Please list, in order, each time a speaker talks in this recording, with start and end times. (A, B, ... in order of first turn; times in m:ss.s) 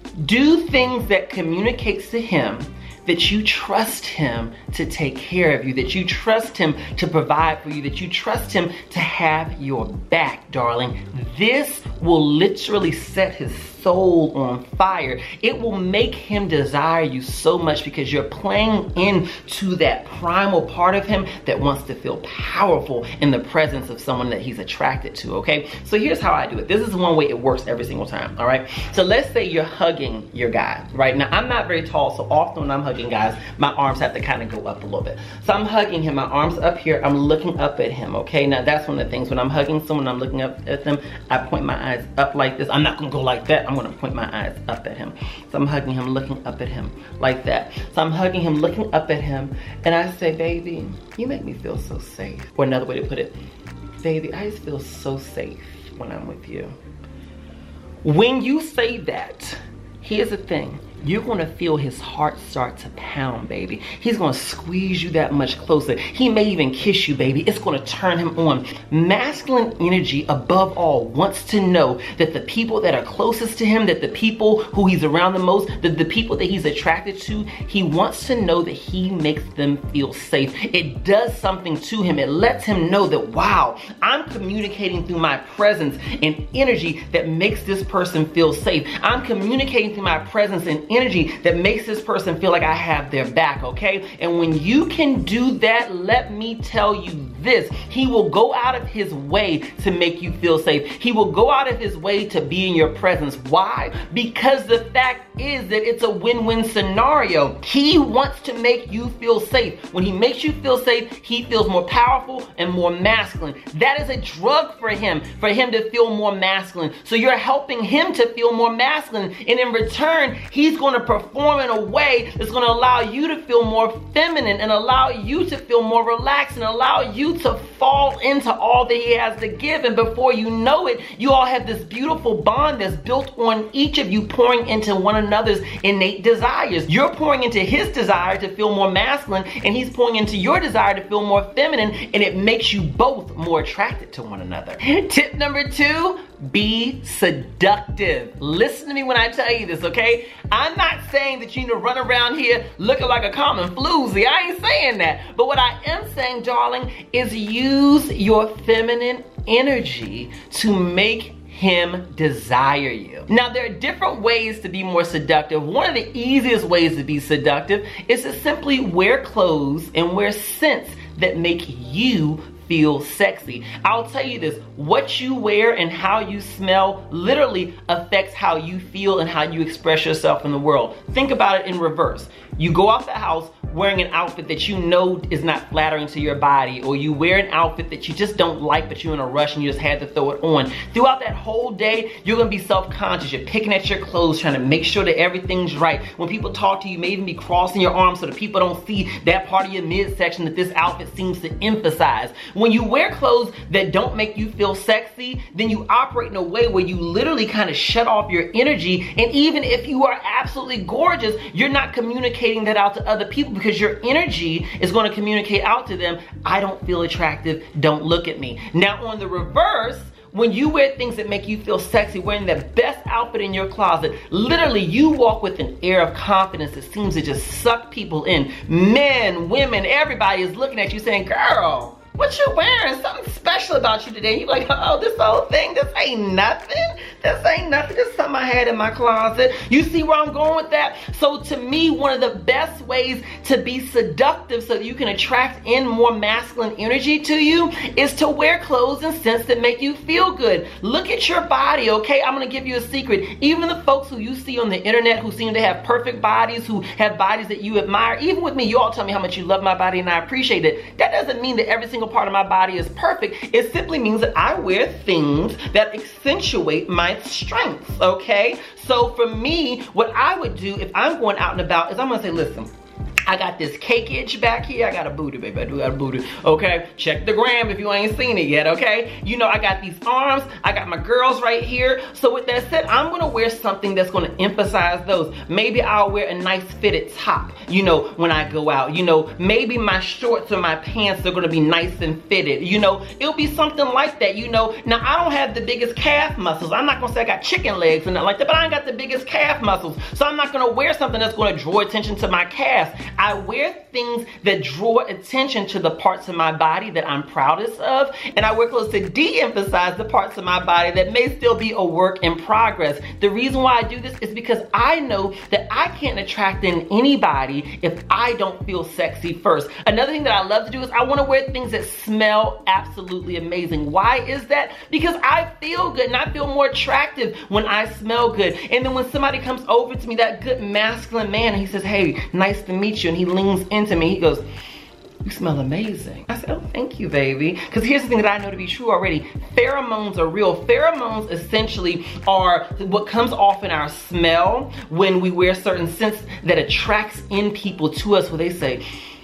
0:00.2-0:53.3 A
0:54.0-0:56.7 A
0:58.0-4:32.7 A
4:33.2-5:34.4 A
5:35.2-5:48.8 A